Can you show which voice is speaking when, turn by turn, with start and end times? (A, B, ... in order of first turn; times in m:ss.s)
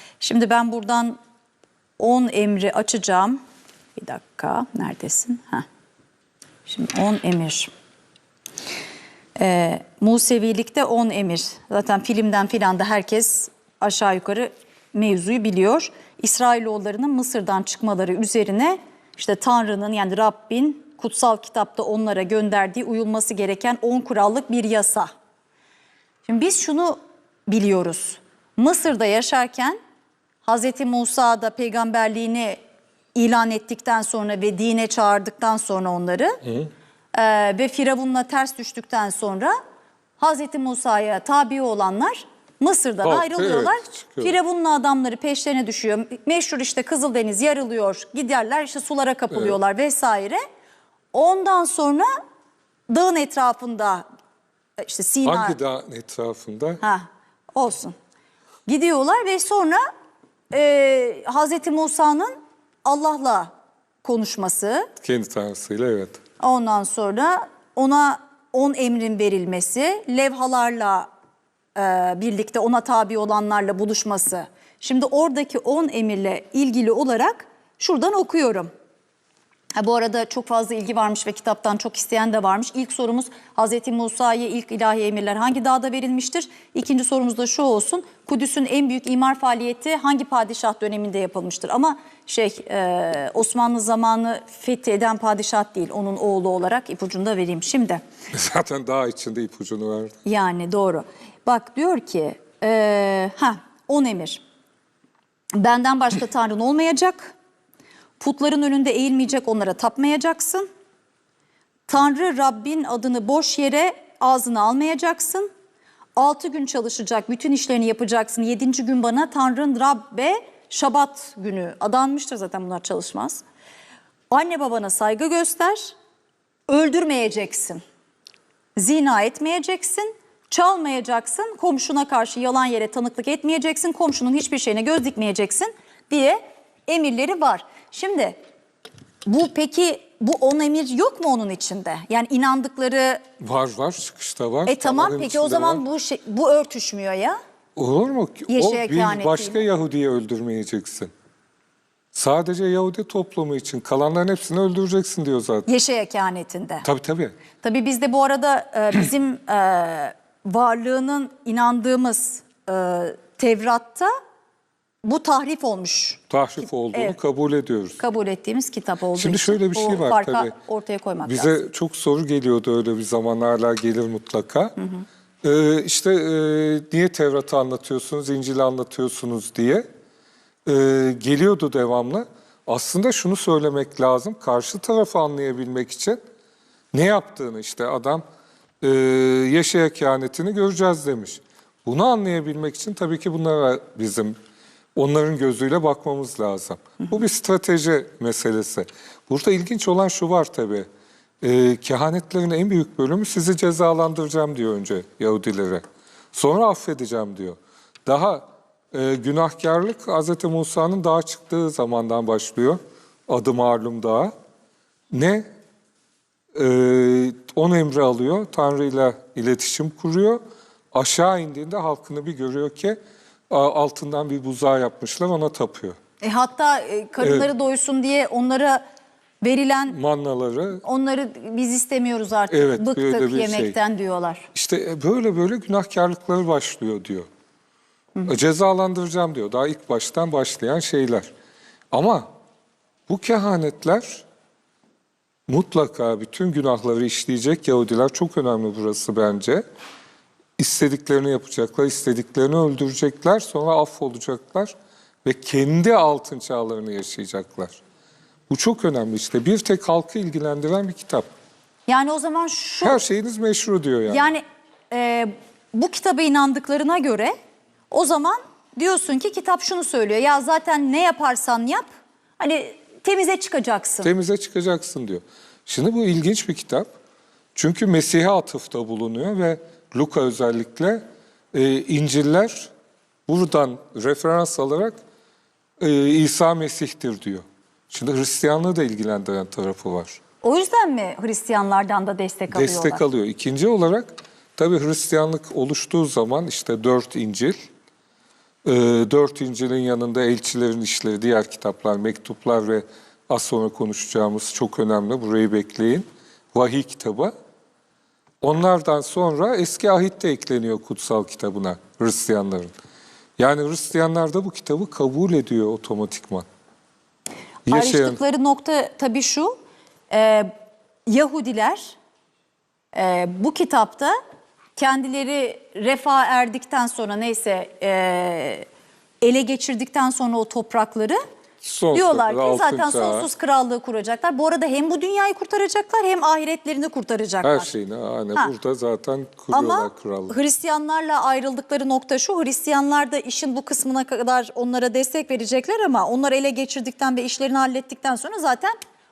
0:00.2-0:01.2 A
0:02.0-0:03.4 A
0:04.0-0:05.6 A
0:06.7-0:07.7 A
0:09.4-0:25.1 A
0:26.2-0:29.8 A
0:30.4-0:32.6 A
0:33.2-0:36.4 A
0:36.4-0:36.7 B
0:37.1-0:39.6 A
0:40.2-0:50.4 A
0:43.0-0:44.4 B
0:49.3-0:49.6 B
0:51.1-0:52.1 A
0:52.9-0:54.0 A
0:54.8-0:55.6 A
0:55.2-0:56.8 B
0:56.8-0:58.0 A
0:58.7-0:59.8 A
1:00.5-1:03.5 A
1:04.0-1:04.9 A
1:05.0-1:06.2 B
1:06.4-1:11.1 A
1:11.8-1:18.7 A
1:19.8-1:38.0 A
1:38.3-1:40.1 B
1:40.2-1:44.4 A
1:45.6-1:47.4 A
1:48.2-1:50.7 A
1:51.9-1:55.5 A
1:56.2-2:03.4 A
2:04.3-2:05.9 A
2:06.7-2:07.8 A
2:08.8-2:18.4 A
2:19.3-2:23.2 A
2:23.4-2:25.8 B
2:24.7-2:27.4 A
2:27.8-2:31.1 B
2:28.5-2:29.6 A
2:32.1-2:35.7 B
2:35.7-2:36.8 A
2:36.8-2:37.4 B
2:37.6-2:44.1 A
2:45.0-2:46.2 A
2:46.3-2:48.0 B
2:48.0-2:51.6 A
2:49.2-2:50.5 B
2:51.3-2:54.8 B
2:54.8-2:55.0 A
2:55.4-2:59.8 B
3:00.6-3:06.2 B
3:06.9-3:08.2 B
3:08.8-3:14.4 B
3:15.0-3:20.9 B
3:21.4-3:34.3 B
3:35.1-3:35.5 B
3:36.6-3:40.4 B
3:40.9-3:43.0 B
3:43.5-3:46.0 B
3:46.2-3:48.8 A
3:47.2-3:47.5 B
3:49.4-3:50.0 A
3:49.9-3:50.8 B
3:50.8-3:54.5 A
3:52.5-3:53.8 B
3:54.5-3:57.3 B
3:58.3-4:01.3 B
4:01.9-4:02.3 B
4:03.1-4:04.2 B
4:05.5-4:09.6 B
4:10.6-4:14.7 B
4:15.2-4:17.8 B
4:18.5-4:21.3 B
4:21.9-4:23.0 A
4:22.8-4:24.3 B
4:24.1-4:27.3 A
4:27.9-4:31.8 A
4:32.4-4:34.1 A
4:34.0-4:36.9 B
4:37.6-4:42.7 B
4:43.3-4:45.0 B
4:45.8-4:50.2 B
4:50.4-4:53.0 A
4:52.5-4:57.7 B
4:58.6-5:07.3 B
5:08.4-5:12.7 B
5:13.4-5:16.5 B
5:17.7-5:19.5 A
5:17.7-5:18.2 B
5:20.1-5:20.5 A
5:21.1-5:22.0 A
5:22.9-5:24.2 A
5:24.8-5:28.7 A
5:29.2-5:31.2 A
5:31.6-5:33.3 B
5:31.9-5:37.7 A
5:37.4-5:40.4 B
5:39.5-5:48.8 A